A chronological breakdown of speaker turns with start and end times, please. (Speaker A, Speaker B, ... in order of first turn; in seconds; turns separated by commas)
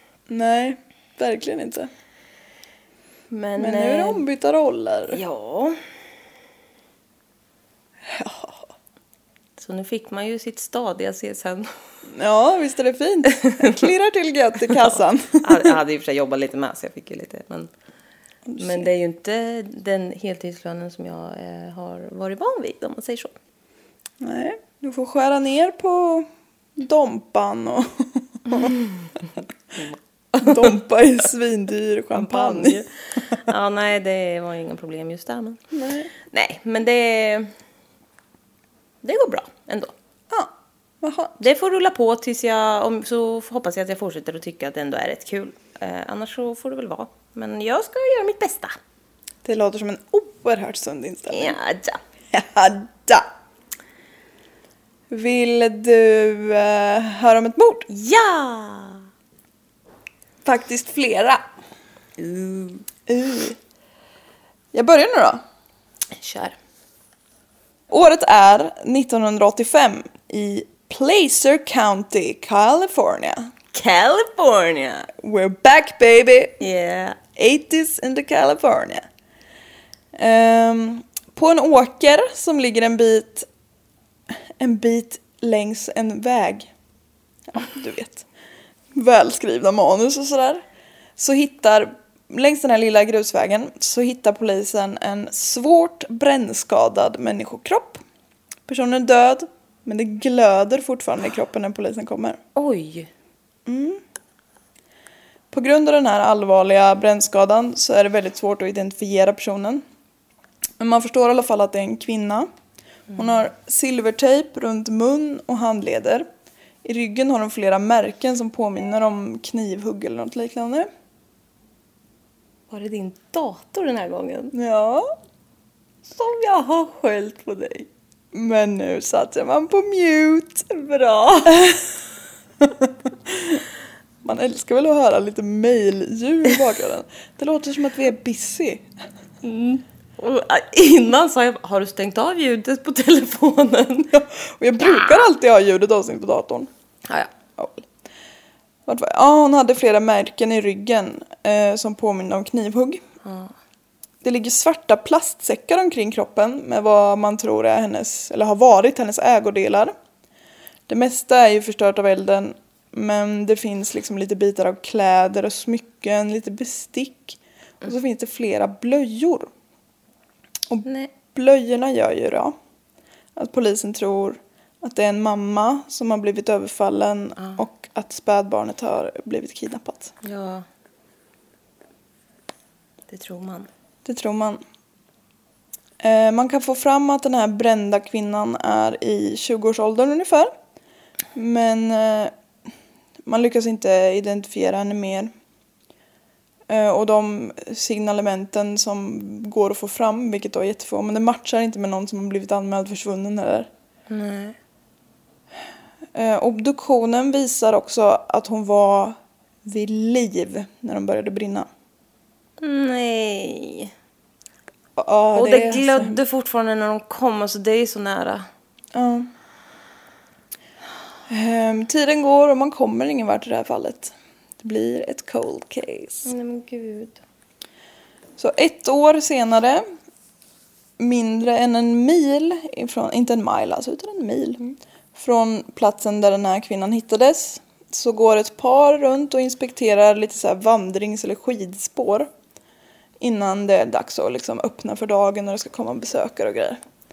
Speaker A: 0.3-1.9, Speaker B: 3.3-4.2, Speaker A: 3.6-5.2, Speaker B: 5.1-5.8, Speaker A: 8.1-8.7, Speaker B: 9.6-11.7, Speaker A: 12.1-15.8, Speaker B: 13.4-13.7, Speaker B: 14.7-17.7, Speaker A: 18.5-18.9, Speaker B: 18.6-23.3, Speaker A: 24.2-28.8, Speaker B: 28.5-29.0, Speaker B: 29.8-30.7, Speaker A: 30.4-32.8, Speaker B: 32.1-35.6, Speaker A: 35.7-36.1, Speaker B: 36.3-37.5, Speaker B: 39.0-39.9, Speaker A: 41.0-41.4, Speaker B: 41.4-48.7, Speaker A: 49.4-51.6, Speaker B: 51.3-52.0, Speaker A: 52.3-53.3, Speaker A: 55.1-57.9, Speaker B: 57.9-59.0, Speaker A: 60.4-61.4, Speaker B: 62.2-62.8, Speaker A: 63.1-63.6, Speaker A: 64.7-65.4, Speaker B: 66.1-66.5, Speaker A: 67.9-73.5, Speaker B: 73.7-75.1, Speaker A: 75.2-76.7, Speaker B: 76.6-77.2, Speaker A: 77.3-79.0, Speaker A: 80.1-83.5, Speaker A: 84.3-86.7, Speaker A: 87.5-88.2, Speaker A: 88.9-90.6, Speaker A: 91.2-98.0, Speaker A: 98.7-102.4, Speaker B: 102.5-103.1, Speaker A: 103.7-104.0, Speaker A: 105.5-109.8, Speaker A: 110.8-112.5, Speaker A: 113.1-116.3, Speaker A: 116.8-120.9, Speaker B: 122.7-124.5, Speaker A: 124.5-125.1, Speaker B: 126.1-127.9, Speaker A: 128.3-130.7, Speaker B: 130.7-131.6, Speaker A: 131.4-132.0, Speaker A: 132.6-133.6, Speaker A: 134.2-138.8, Speaker B: 139.4-144.2, Speaker A: 144.1-146.7, Speaker A: 147.6-147.8, Speaker A: 148.9-153.0, Speaker B: 153.2-153.5, Speaker A: 154.2-159.9, Speaker A: 160.9-169.5, Speaker A: 170.7-172.5, Speaker B: 170.8-171.1, Speaker A: 173.3-180.1, Speaker B: 180.2-180.7, Speaker B: 183.1-183.7, Speaker A: 184.0-184.6, Speaker A: 186.0-190.5, Speaker A: 191.3-192.3, Speaker A: 193.2-195.3, Speaker A: 196.7-203.7, Speaker B: 204.1-204.6, Speaker A: 206.1-211.7, Speaker B: 212.6-213.9, Speaker A: 215.0-216.2, Speaker B: 215.3-218.5, Speaker A: 218.9-219.3, Speaker A: 221.3-226.3, Speaker B: 226.2-227.2, Speaker A: 228.4-229.8, Speaker A: 231.0-234.6, Speaker A: 235.1-242.3, Speaker A: 243.2-246.8